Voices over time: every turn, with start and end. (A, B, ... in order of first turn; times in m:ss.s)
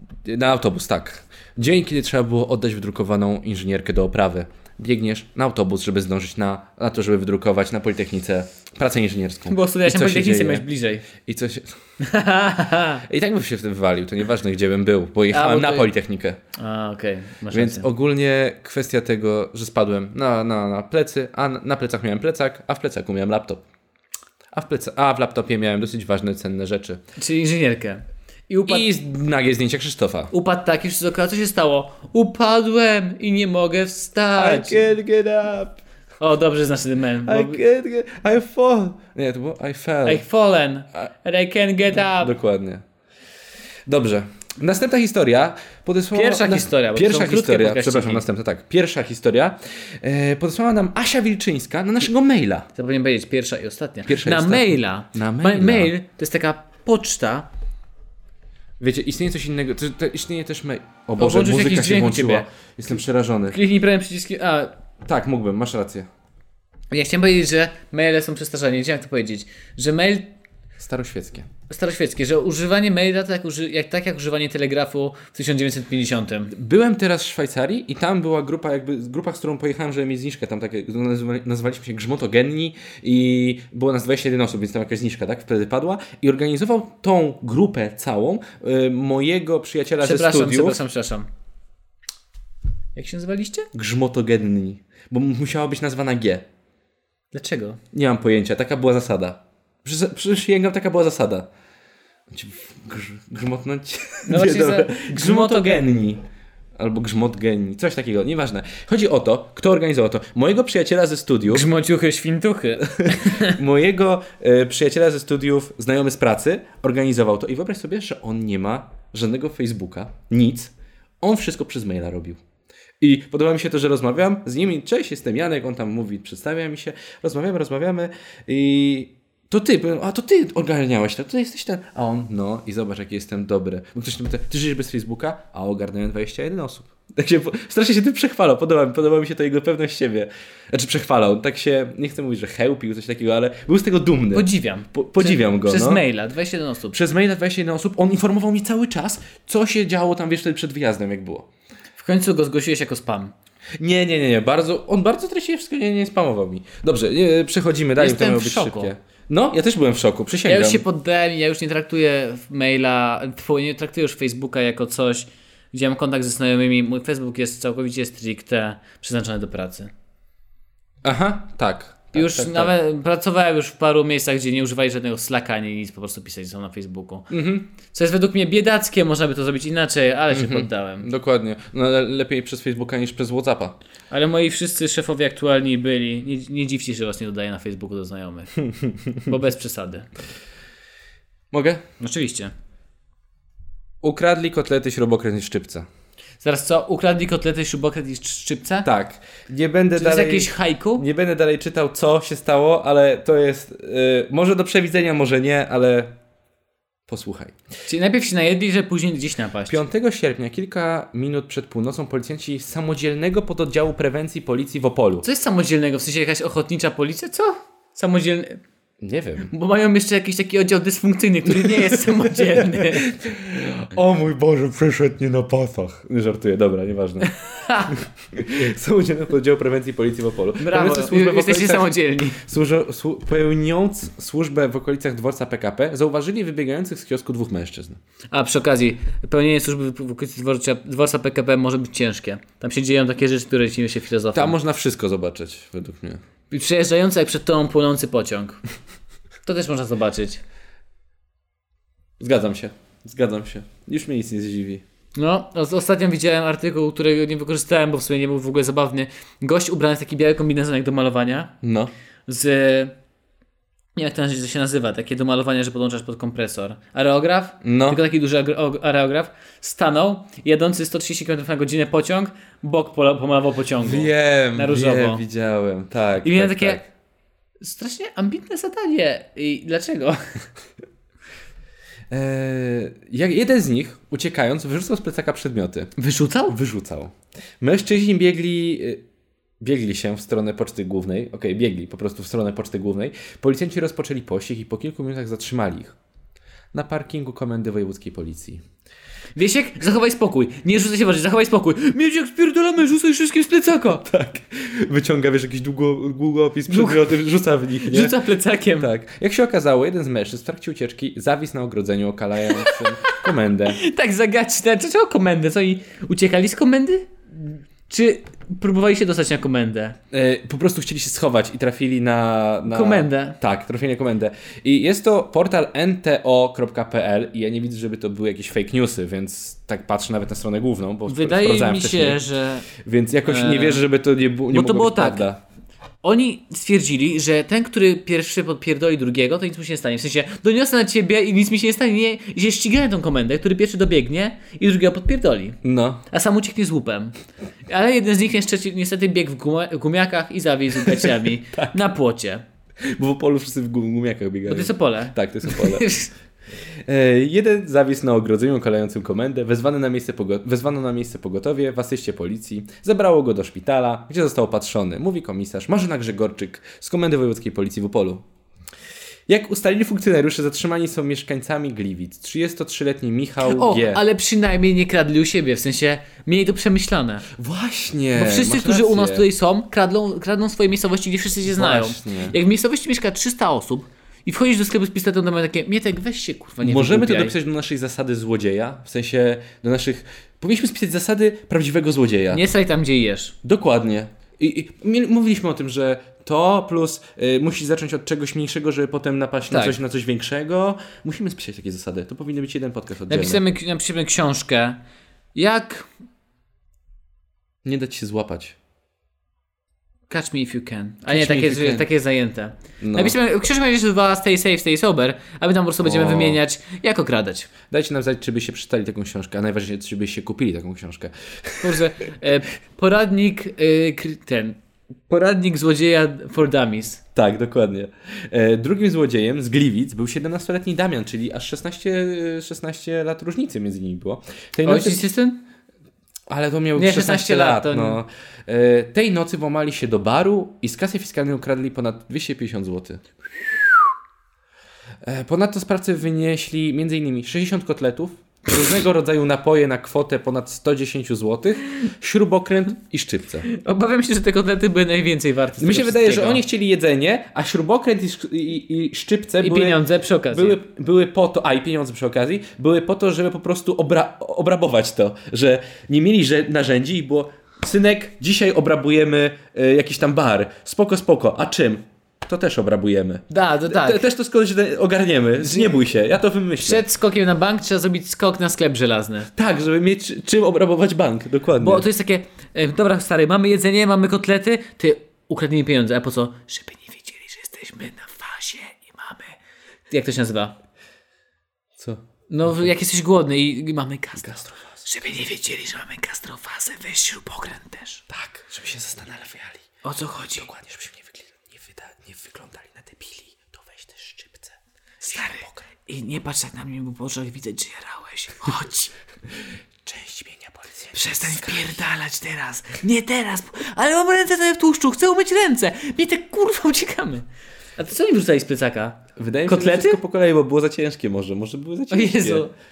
0:00.2-0:10.6 A
0:09.5-0:11.1 B
0:11.2-0:11.7 A
0:12.0-0:13.0 B
0:13.0-0:16.4 A
0:15.3-0:15.9 B
0:16.6-0:17.9 B
0:17.5-0:23.6 A
0:24.5-0:27.0 A
0:27.2-0:28.9 B
0:28.7-0:30.3 A
0:30.3-0:34.8 B
0:34.4-0:35.8 A
0:36.2-0:37.6 B
0:37.2-0:40.2 A
0:40.0-0:42.3 B
0:42.0-0:42.8 A
0:43.9-0:52.7 A
0:46.1-0:48.2 B
0:52.7-0:57.5 B
0:54.0-0:55.9 A
0:58.8-1:03.6 A
1:01.2-1:02.4 B
1:03.5-1:04.7 B
1:05.0-1:06.1 A
1:06.9-1:10.3 B
1:10.8-1:11.5 A
1:11.7-1:16.5 B
1:16.5-1:30.8 A
1:30.0-1:31.3 B
1:32.9-1:33.7 B
1:33.7-1:36.4 A
1:37.3-1:37.8 B
1:37.9-1:41.5 A
1:42.3-1:46.2 A
1:44.2-1:45.9 B
1:46.8-1:51.7 A
1:51.5-1:53.6 B
1:53.0-2:02.4 A
2:03.0-2:26.0 A
2:24.3-2:27.0 B
2:26.9-2:31.5 A
2:32.0-2:33.3 B
2:33.8-2:40.8 A
2:38.0-2:38.9 B
2:40.4-2:49.9 B
2:51.0-2:52.7 A
2:52.1-2:57.3 B
2:57.3-2:57.7 A
2:57.9-3:01.1 B
3:00.3-3:03.7 A
3:04.1-3:10.1 B
3:11.5-3:11.8 A
3:12.0-3:12.5 B
3:14.0-3:15.9 A
3:16.4-3:18.9 B
3:18.8-3:26.1 A
3:20.0-3:21.0 B
3:27.1-3:27.6 A
3:27.9-3:29.8 B
3:29.7-3:35.2 A
3:35.2-3:38.6 B
3:39.0-3:39.5 A
3:39.5-3:43.2 B
3:41.6-3:42.0 A
3:42.6-3:58.0 A
3:47.6-3:47.9 B
3:50.6-3:52.4 B
3:58.3-4:04.6 B
4:04.3-4:06.2 A
4:06.5-4:08.6 B
4:09.4-4:10.4 B
4:12.2-4:14.8 A
4:15.2-4:21.5 B
4:21.6-4:21.9 A
4:22.3-4:22.9 B
4:24.0-4:35.2 B
4:27.6-4:28.0 A
4:33.8-4:36.9 A
4:36.2-4:36.8 B
4:37.6-4:40.2 B
4:42.1-4:45.9 A
4:46.0-4:46.6 B
4:46.5-4:49.0 A
4:49.6-4:56.0 A
4:56.7-4:58.6 A
4:59.4-5:04.0 B
5:04.0-5:08.2 A
5:06.7-5:07.1 B
5:07.8-5:08.9 B
5:08.8-5:13.8 A
5:12.5-5:13.1 B
5:13.7-5:20.0 B
5:20.1-5:32.2 A
5:22.7-5:23.4 B
5:31.1-5:32.7 B
5:32.8-5:35.4 A
5:33.2-5:33.8 B
5:34.5-5:35.3 B
5:36.0-5:45.6 B
5:45.6-5:46.0 A
5:46.1-5:47.1 B
5:47.7-5:52.4 B
5:50.8-5:51.7 A
5:52.9-5:55.9 A
5:54.5-5:56.1 B
5:56.8-6:08.2 A
6:09.3-6:14.0 A
6:13.4-6:17.3 B
6:17.4-6:19.3 A
6:18.1-6:27.3 B
6:21.4-6:22.4 A
6:26.6-6:32.4 A
6:32.3-6:33.3 B
6:33.4-6:43.4 A
6:39.5-6:39.8 B
6:43.1-6:44.8 B
6:45.3-6:45.9 B
6:47.6-6:48.6 A
6:50.1-6:57.5 B
6:51.1-6:51.9 A
6:52.8-6:53.2 A
6:55.8-6:56.4 A
6:57.7-7:01.8 A
7:01.6-7:04.6 B
7:05.1-7:07.0 B
7:07.1-7:15.0 A
7:14.6-7:15.4 B
7:16.3-7:23.8 A
7:16.8-7:18.0 B
7:25.0-7:33.5 A
7:33.4-7:36.4 B
7:35.6-7:56.8 A
7:39.4-7:40.6 B
7:53.3-7:54.0 B
7:55.4-7:55.8 B
7:56.6-7:59.3 B
7:59.4-8:01.9 A
8:01.6-8:09.4 B
8:09.9-8:10.6 B
8:12.3-8:18.0 B
8:14.2-8:14.8 A
8:18.1-8:19.6 A
8:19.8-8:20.5 B
8:20.3-8:24.5 A
8:25.0-8:28.9 B
8:25.1-8:25.6 A
8:29.8-8:31.8 A
8:31.0-8:37.2 B
8:37.8-8:40.0 B
8:39.2-8:42.5 A
8:41.9-8:42.5 B